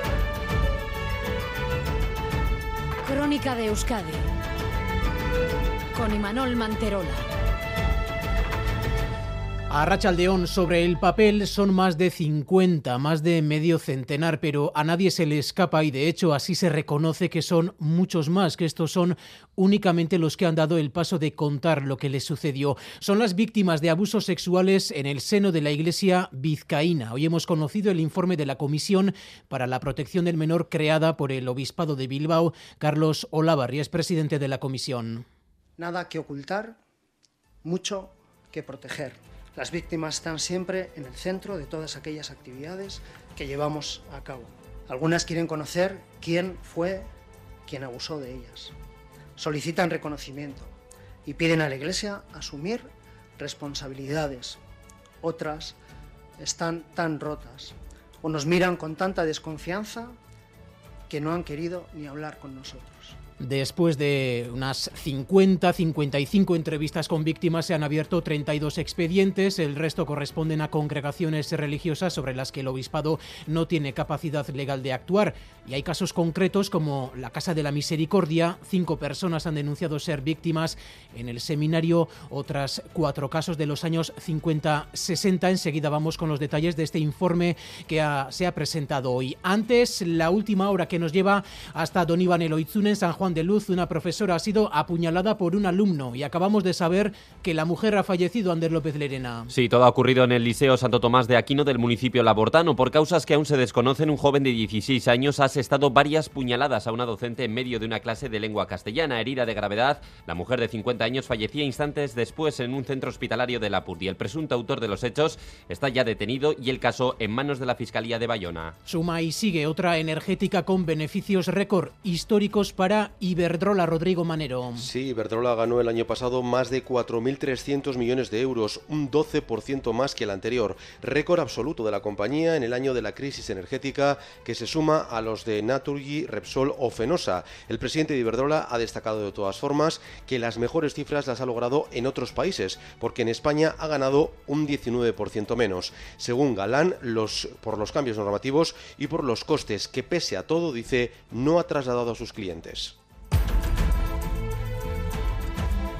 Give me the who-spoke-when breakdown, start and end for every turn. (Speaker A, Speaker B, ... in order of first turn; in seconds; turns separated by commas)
Speaker A: 3.0-4.2, Speaker A: 5.9-7.2, Speaker B: 9.7-35.2, Speaker C: 35.8-36.8, Speaker C: 37.6-47.1, Speaker C: 47.7-48.7, Speaker C: 49.4-50.7, Speaker C: 51.2-54.6, Speaker C: 55.2-55.8, Speaker C: 56.4-60.1, Speaker C: 61.1-63.1, Speaker B: 63.4-99.5, Speaker D: 99.5-118.7, Speaker B: 118.8-124.9, Speaker E: 124.8-152.9